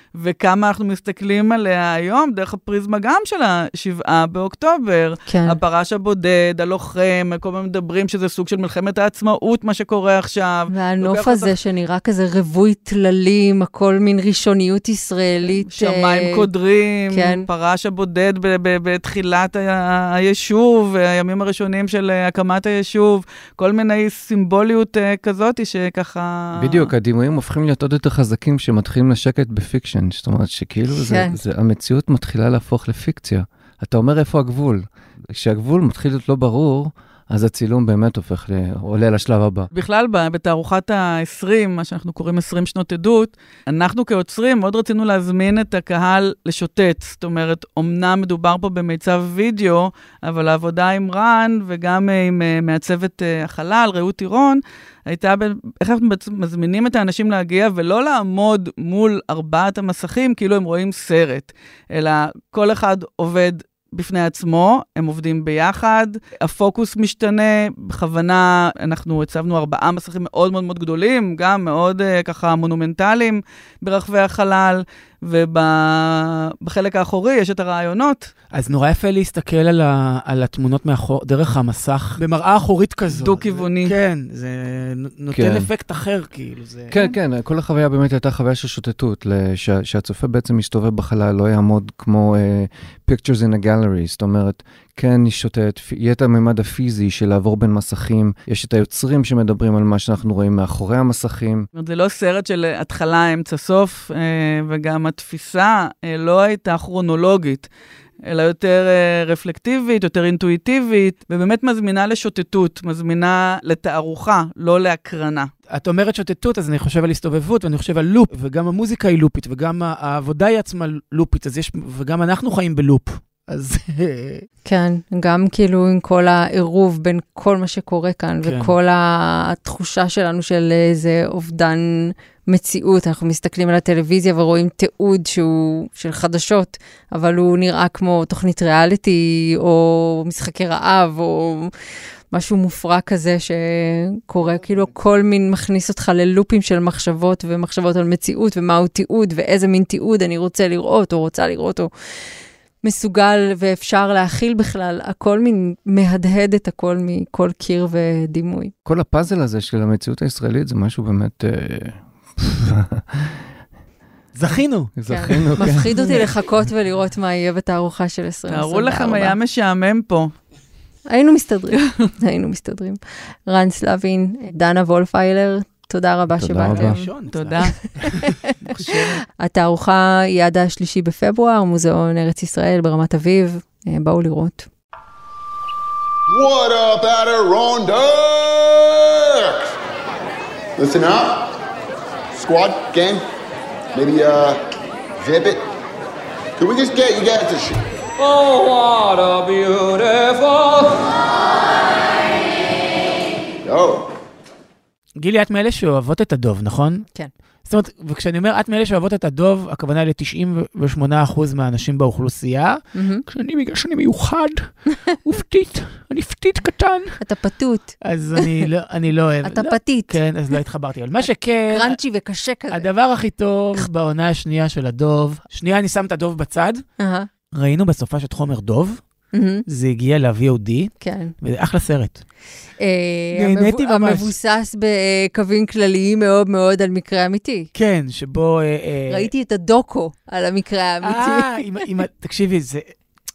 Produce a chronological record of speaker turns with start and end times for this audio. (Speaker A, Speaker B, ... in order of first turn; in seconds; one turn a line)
Speaker A: 0.1-11.5
Speaker B: 5.3-5.6
Speaker B: 10.7-16.5
Speaker A: 15.5-26.9
Speaker B: 17.1-17.5
Speaker C: 26.6-39.7
Speaker B: 30.9-31.4
Speaker A: 39.7-78.3
Speaker D: 78.5-87.0
Speaker A: 83.1-83.9
Speaker C: 85.3-85.7
Speaker C: 86.9-101.7
Speaker A: 101.8-107.7
Speaker A: 108.2-115.5
Speaker D: 115.7-124.5
Speaker B: 124.7-141.7
Speaker D: 128.4-128.7
Speaker B: 142.3-151.9
Speaker D: 144.4-144.9
Speaker B: 152.8-158.7
Speaker C: 158.8-163.3
Speaker D: 164.3-166.1
Speaker C: 165.0-166.3
Speaker B: 165.1-169.3
Speaker A: 168.5-170.3
Speaker B: 171.1-177.1
Speaker C: 176.3-177.0
Speaker D: 176.7-179.1
Speaker A: 177.3-177.8
Speaker B: 178.1-178.5
Speaker B: 179.4-184.7
Speaker E: 186.3-189.8
Speaker E: 190.8-191.5
Speaker E: 192.3-193.2
Speaker E: 193.9-194.6
Speaker E: 195.2-195.7
Speaker E: 196.6-197.8
Speaker E: 203.6-204.1
Speaker D: 205.2-207.1
Speaker D: 207.7-217.2
Speaker B: 212.9-213.2
Speaker B: 217.2-218.7
Speaker D: 218.0-222.0
Speaker B: 219.4-220.2
Speaker B: 221.7-222.9
Speaker D: 222.7-226.8
Speaker B: 227.0-227.3
Speaker D: 227.5-229.0
Speaker B: 229.3-229.7
Speaker D: 229.7-232.2
Speaker B: 231.0-231.3
Speaker B: 232.8-237.7
Speaker D: 233.3-234.3
Speaker D: 237.7-239.3
Speaker B: 239.1-241.6
Speaker D: 241.0-242.9